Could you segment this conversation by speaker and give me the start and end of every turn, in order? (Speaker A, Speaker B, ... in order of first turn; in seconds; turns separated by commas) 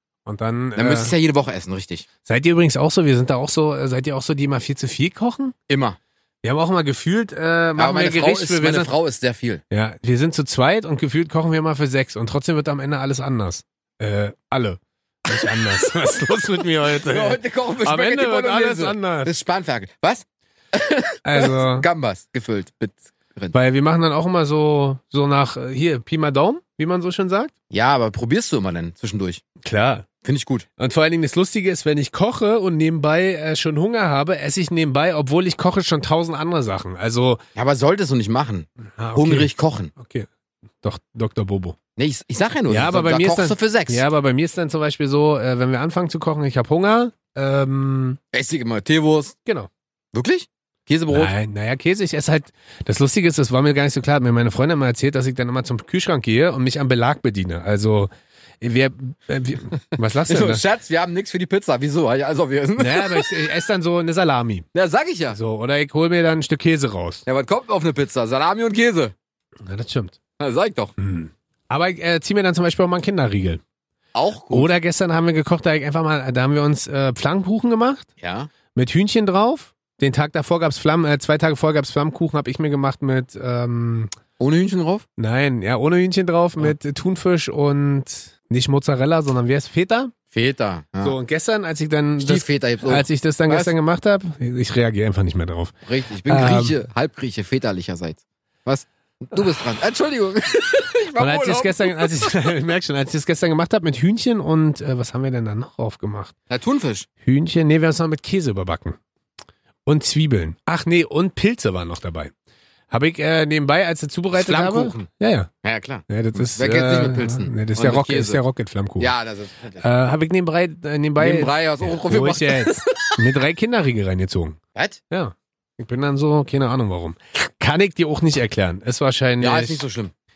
Speaker A: 0.3-1.1, Speaker B: 0.8-2.1, Speaker A: 2.2-5.5, Speaker B: 5.7-6.0, Speaker A: 6.4-8.9, Speaker B: 7.8-9.6, Speaker A: 9.7-19.3, Speaker B: 17.0-23.6, Speaker A: 21.2-21.9, Speaker A: 23.5-27.5, Speaker B: 27.7-29.4, Speaker A: 29.6-30.1, Speaker B: 30.2-30.7, Speaker A: 30.8-37.4, Speaker B: 37.6-39.9, Speaker A: 39.0-40.3, Speaker A: 40.8-41.8, Speaker B: 42.0-44.0, Speaker A: 42.7-48.2, Speaker B: 48.3-49.4, Speaker B: 50.1-51.3, Speaker A: 51.1-58.1, Speaker A: 58.6-60.6, Speaker B: 59.9-63.3, Speaker A: 62.8-64.7, Speaker B: 64.7-65.4, Speaker A: 65.3-67.2, Speaker B: 67.3-69.1, Speaker A: 69.6-70.2, Speaker B: 70.4-70.9, Speaker A: 71.0-73.6, Speaker B: 74.2-74.8, Speaker A: 74.5-78.1, Speaker B: 78.2-78.5, Speaker A: 78.8-84.1, Speaker B: 84.4-85.0, Speaker A: 85.2-90.1, Speaker B: 90.3-91.2, Speaker A: 91.0-95.8, Speaker B: 92.2-93.7, Speaker B: 95.9-102.1, Speaker A: 96.3-96.8, Speaker A: 101.2-106.3, Speaker B: 106.5-107.1, Speaker A: 107.2-109.0, Speaker A: 109.9-112.3, Speaker A: 112.9-115.5, Speaker B: 114.3-115.1, Speaker B: 115.6-118.4, Speaker A: 116.1-119.1, Speaker B: 119.0-119.8, Speaker A: 119.8-124.6, Speaker B: 121.2-123.2, Speaker B: 124.8-125.0, Speaker A: 125.1-129.8, Speaker B: 129.4-130.1